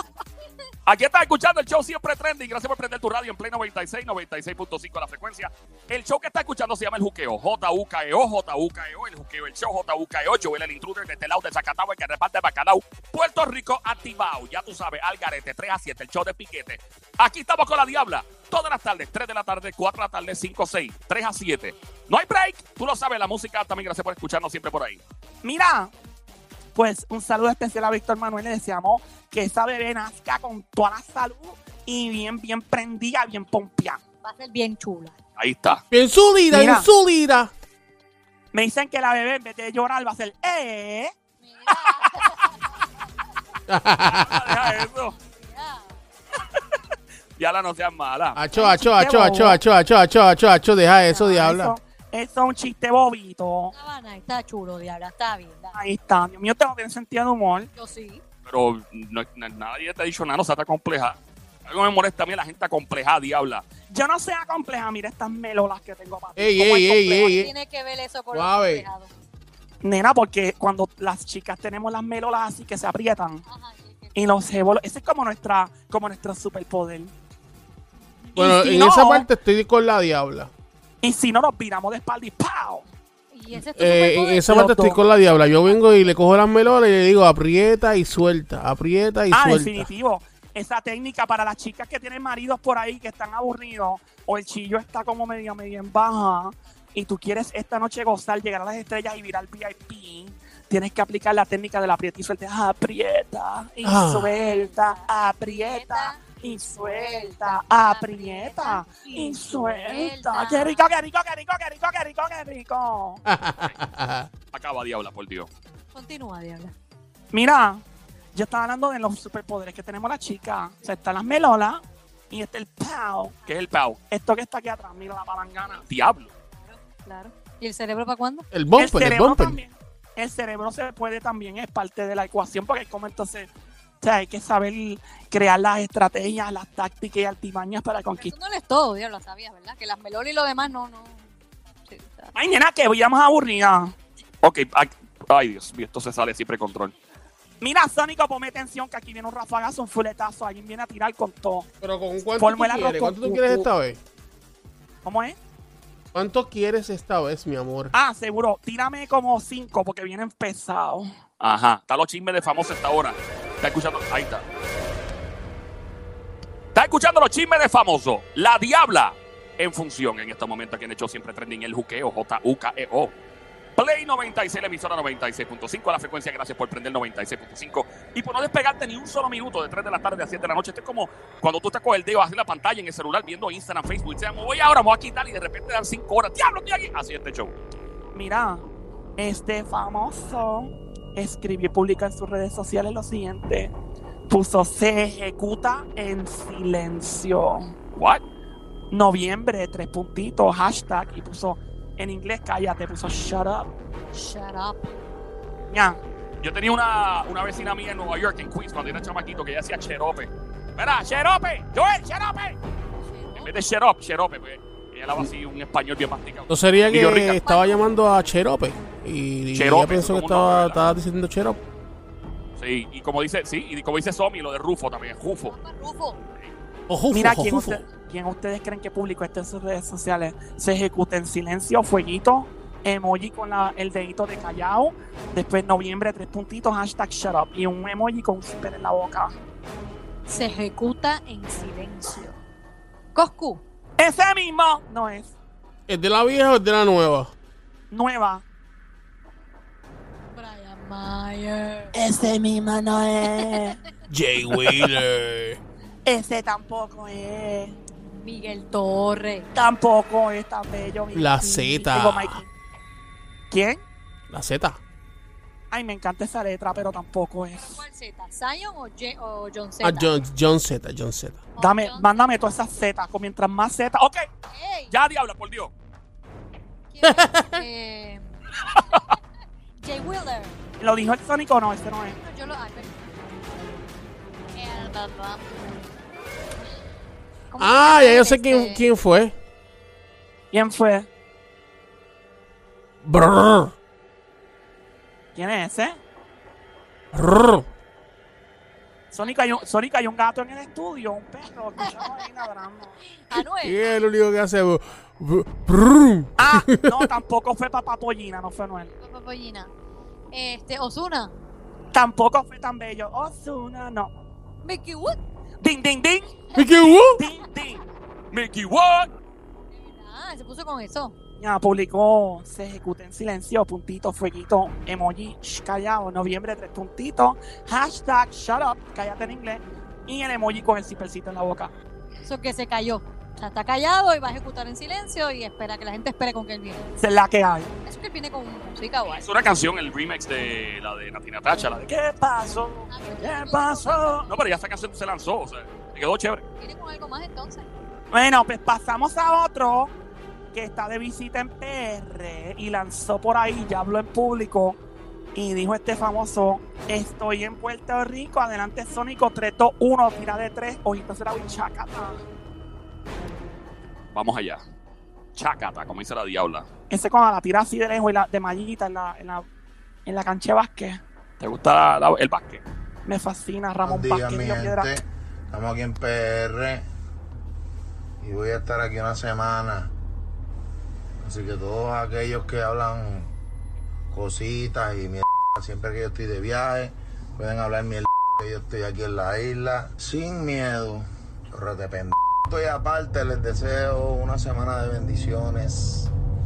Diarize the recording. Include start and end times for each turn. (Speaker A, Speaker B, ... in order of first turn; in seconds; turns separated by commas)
Speaker A: 0.9-25.0, Speaker B: 25.4-25.9, Speaker B: 26.8-34.0, Speaker C: 34.2-35.2, Speaker A: 35.4-35.8, Speaker D: 35.9-37.5, Speaker B: 36.5-36.9, Speaker B: 38.5-41.1, Speaker C: 41.4-42.9, Speaker D: 43.7-44.8, Speaker A: 44.1-45.2, Speaker C: 45.2-46.0, Speaker A: 47.4-48.4, Speaker D: 48.4-51.8, Speaker B: 48.5-49.6, Speaker B: 51.1-53.7, Speaker C: 53.7-55.8, Speaker B: 55.7-57.7, Speaker C: 57.8-58.2, Speaker A: 58.5-63.7, Speaker B: 63.9-67.4, Speaker D: 66.4-67.5, Speaker C: 67.1-69.1, Speaker D: 68.3-68.9, Speaker B: 69.8-73.4, Speaker C: 73.5-74.3, Speaker B: 74.2-77.1, Speaker B: 78.4-79.3, Speaker D: 78.4-80.5, Speaker B: 81.0-82.9, Speaker C: 83.3-86.1, Speaker D: 83.5-89.9, Speaker B: 84.5-85.0, Speaker B: 89.3-113.2, Speaker D: 103.8-104.3, Speaker C: 104.3-110.8, Speaker D: 113.3-114.3, Speaker A: 114.5-115.5, Speaker C: 115.9-116.8, Speaker B: 117.3-117.8, Speaker B: 118.3-123.4, Speaker A: 123.5-124.0, Speaker B: 124.1-125.8, Speaker A: 125.9-126.3, Speaker C: 126.5-128.5, Speaker D: 128.5-129.6, Speaker B: 128.8-133.5, Speaker B: 134.0-138.3, Speaker C: 138.2-141.3, Speaker C: 141.9-142.3, Speaker B: 142.3-143.9, Speaker A: 144.4-146.9, Speaker B: 147.6-151.7, Speaker D: 151.8-154.0, Speaker B: 152.4-153.7, Speaker B: 155.1-155.4, Speaker D: 156.1-157.9, Speaker B: 157.9-161.1, Speaker A: 161.4-164.4, Speaker A: 166.8-173.1, Speaker A: 173.8-187.5, Speaker B: 188.2-188.6, Speaker B: 189.2-193.7, Speaker B: 194.3-197.7, Speaker A: 198.0-198.2, Speaker B: 198.9-203.7, Speaker C: 204.1-205.0, Speaker B: 205.7-206.0, Speaker A: 206.4-212.6, Speaker C: 213.0-213.6, Speaker A: 213.4-217.4, Speaker D: 216.5-221.6, Speaker C: 217.3-217.8, Speaker A: 219.5-220.8, Speaker A: 222.6-225.6, Speaker C: 225.4-226.2, Speaker D: 226.9-227.8, Speaker B: 227.1-239.3, Speaker C: 240.3-242.4, Speaker C: 243.2-243.6, Speaker B: 244.0-245.3, Speaker D: 245.9-247.3, Speaker B: 247.9-248.4, Speaker C: 250.3-252.0, Speaker B: 251.9-253.8, Speaker D: 254.1-255.6, Speaker B: 256.1-257.8, Speaker C: 258.2-259.5, Speaker B: 259.6-262.5, Speaker D: 261.1-262.4, Speaker B: 263.5-263.8, Speaker D: 264.3-264.8, Speaker B: 265.7-267.8, Speaker C: 267.6-270.1, Speaker D: 269.8-271.4, Speaker C: 271.6-272.5, Speaker B: 271.6-274.3, Speaker C: 274.5-274.9, Speaker A: 274.9-275.7, Speaker C: 276.9-279.0, Speaker D: 277.0-277.6, Speaker C: 279.8-280.6, Speaker B: 280.8-282.2, Speaker C: 282.1-283.4, Speaker C: 284.5-285.7, Speaker C: 287.5-288.8, Speaker D: 287.6-289.3, Speaker B: 290.5-291.1, Speaker D: 293.0-293.7, Speaker B: 295.4-296.0, Speaker D: 297.1-297.7, Speaker B: 299.1-303.0, Speaker C: 303.2-303.8, Speaker D: 303.3-307.1, Speaker B: 306.4-308.9, Speaker C: 309.0-309.7, Speaker C: 310.3-311.3, Speaker B: 311.9-314.1, Speaker C: 314.6-315.2, Speaker B: 315.6-316.4, Speaker D: 316.5-317.2, Speaker B: 317.1-317.8, Speaker A: 318.3-319.1, Speaker C: 319.7-321.2, Speaker B: 321.4-331.7, Speaker C: 332.2-336.9, Speaker B: 337.0-337.7, Speaker C: 337.9-339.3, Speaker A: 339.2-341.9, Speaker B: 341.9-344.3, Speaker C: 342.9-344.3, Speaker A: 344.3-346.4, Speaker C: 346.6-347.7, Speaker B: 348.1-349.9, Speaker B: 350.5-354.8, Speaker B: 355.4-362.2, Speaker A: 364.1-364.6, Speaker A: 365.4-366.7, Speaker B: 366.9-369.4, Speaker B: 370.1-371.0, Speaker A: 371.4-372.6, Speaker B: 373.1-374.9, Speaker E: 373.8-376.9, Speaker E: 378.2-379.9, Speaker E: 381.2-383.3, Speaker E: 384.1-396.1